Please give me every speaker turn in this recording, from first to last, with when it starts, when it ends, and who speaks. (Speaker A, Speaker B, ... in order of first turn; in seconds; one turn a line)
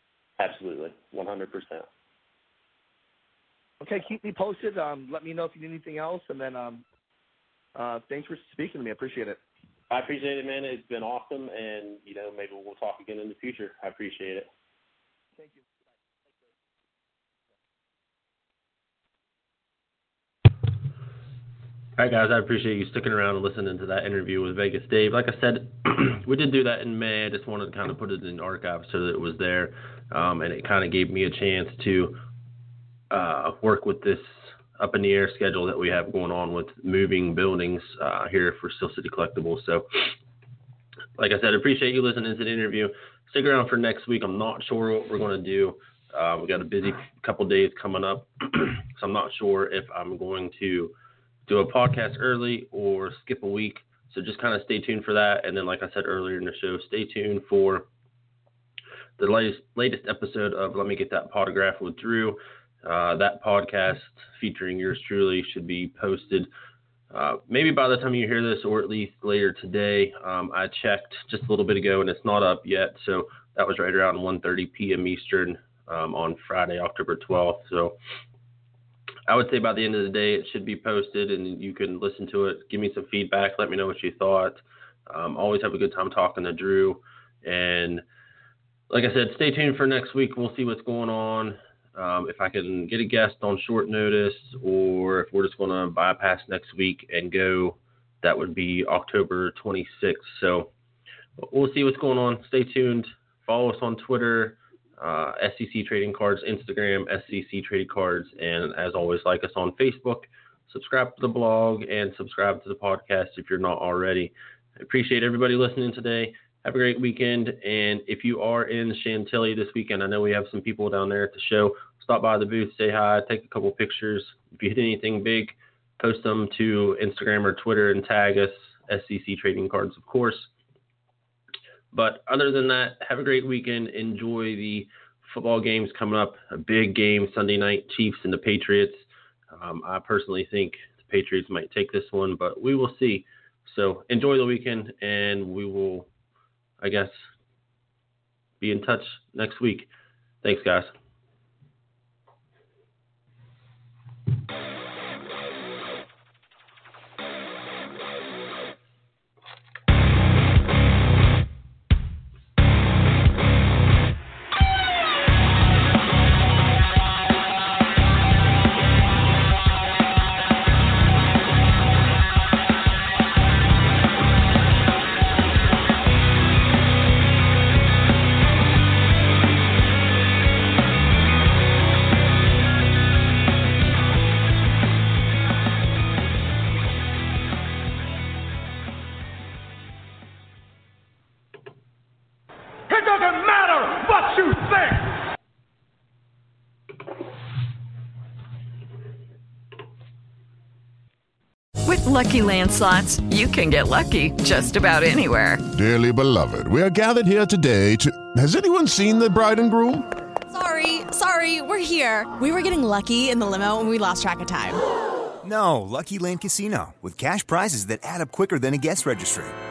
Speaker A: 0.4-1.9
Speaker B: 3.8-6.8
Speaker B: 7.8-9.4
Speaker A: 9.9-14.5
Speaker B: 15.4-15.7
Speaker C: 22.0-32.2
Speaker C: 33.1-40.1
Speaker C: 41.2-50.9
Speaker C: 51.5-57.9
Speaker C: 59.2-66.5
Speaker C: 67.1-78.0
Speaker C: 79.3-88.0
Speaker C: 88.9-100.7
Speaker C: 101.4-130.5
Speaker C: 131.9-146.1
Speaker C: 146.8-147.2
Speaker C: 148.6-149.9
Speaker C: 150.4-150.9
Speaker D: 201.8-205.6
Speaker E: 205.7-210.1
Speaker F: 210.5-214.8
Speaker G: 215.4-219.5